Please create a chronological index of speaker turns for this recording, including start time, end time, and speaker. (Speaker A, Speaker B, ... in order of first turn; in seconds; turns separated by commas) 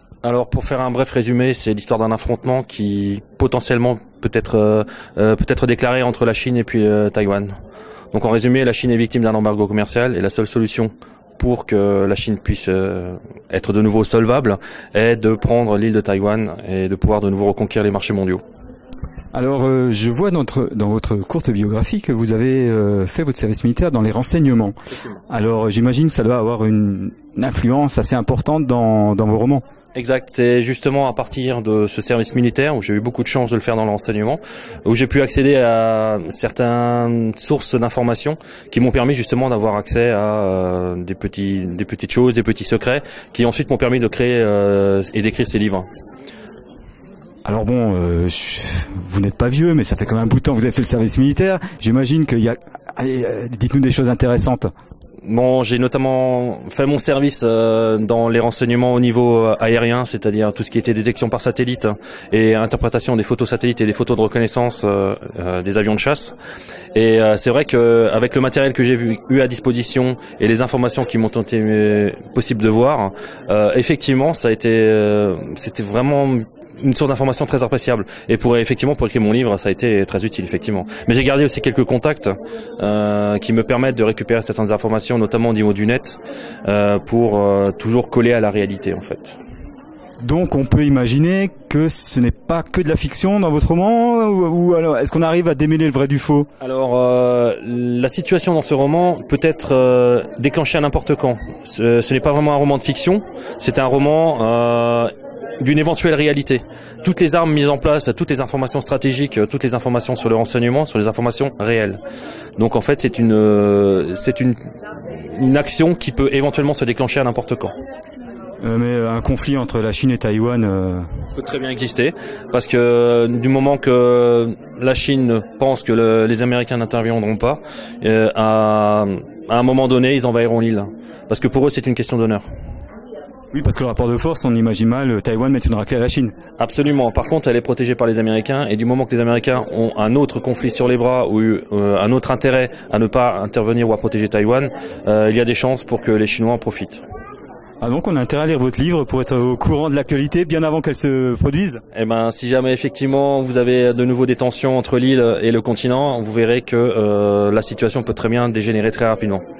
Speaker A: 0.2-7.5, Speaker A: 8.1-18.4, Speaker B: 19.3-24.7, Speaker B: 25.3-29.6, Speaker A: 29.9-45.9, Speaker B: 47.4-54.7, Speaker A: 55.2-66.3, Speaker A: 66.9-89.4, Speaker B: 90.2-96.5, Speaker A: 96.6-112.0, Speaker A: 112.6-117.7, Speaker B: 118.6-121.1, Speaker A: 121.3-132.4, Speaker B: 133.5-136.3, Speaker A: 136.6-147.0, Speaker B: 147.8-151.8, Speaker A: 151.9-159.4